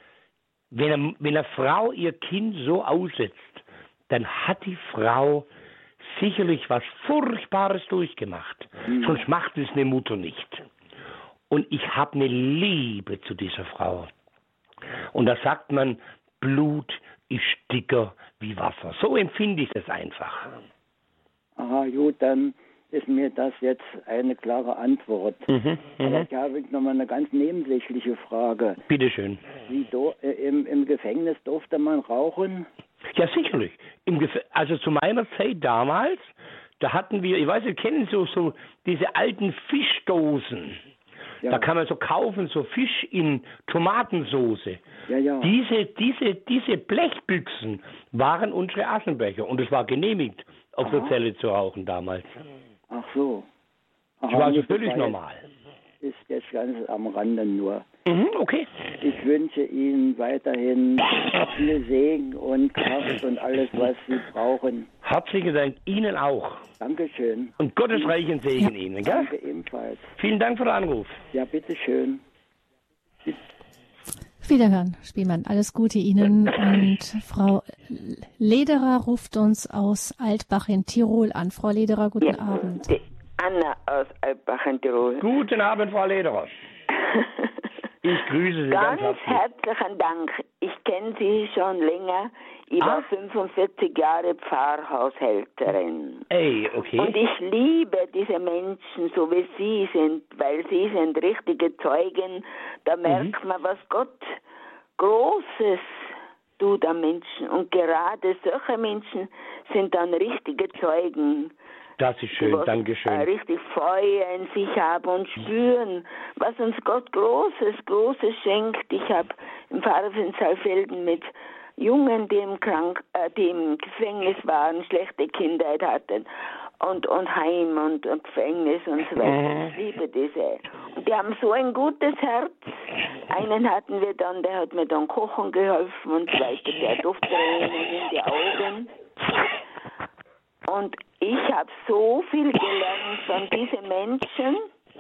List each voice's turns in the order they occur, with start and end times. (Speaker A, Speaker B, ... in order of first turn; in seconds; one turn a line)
Speaker A: 0.7-5.5
Speaker A: 6.0-10.7
Speaker B: 8.9-9.2
Speaker A: 11.5-14.1
Speaker A: 15.1-20.6
Speaker B: 21.6-25.5
Speaker A: 25.5-26.3
Speaker B: 26.0-28.8
Speaker A: 28.9-29.5
Speaker B: 29.7-32.7
Speaker A: 33.1-40.8
Speaker B: 41.4-41.7
Speaker A: 41.5-44.8
Speaker B: 45.1-45.5
Speaker A: 45.4-52.4
Speaker B: 50.9-51.1
Speaker B: 52.9-53.5
Speaker B: 54.2-55.1
Speaker A: 54.3-55.5
Speaker B: 56.0-57.9
Speaker A: 58.1-58.7
Speaker B: 59.0-64.9
Speaker A: 65.0-66.7
Speaker B: 66.8-67.6
Speaker A: 67.6-69.3
Speaker B: 69.0-70.1
Speaker A: 70.2-71.2
Speaker B: 71.3-72.2
Speaker C: 74.4-82.9
Speaker D: 82.2-85.2
Speaker A: 85.2-86.5
Speaker D: 87.1-87.5
Speaker A: 88.0-89.4
Speaker D: 88.7-96.3
Speaker A: 92.8-93.1
Speaker A: 96.3-97.2
Speaker D: 97.0-104.4
Speaker A: 103.1-103.3
Speaker D: 105.0-106.1
Speaker D: 106.6-111.5
Speaker A: 112.0-113.3
Speaker D: 112.4-126.3
Speaker D: 126.8-139.0
Speaker A: 129.2-129.7
Speaker D: 140.7-144.7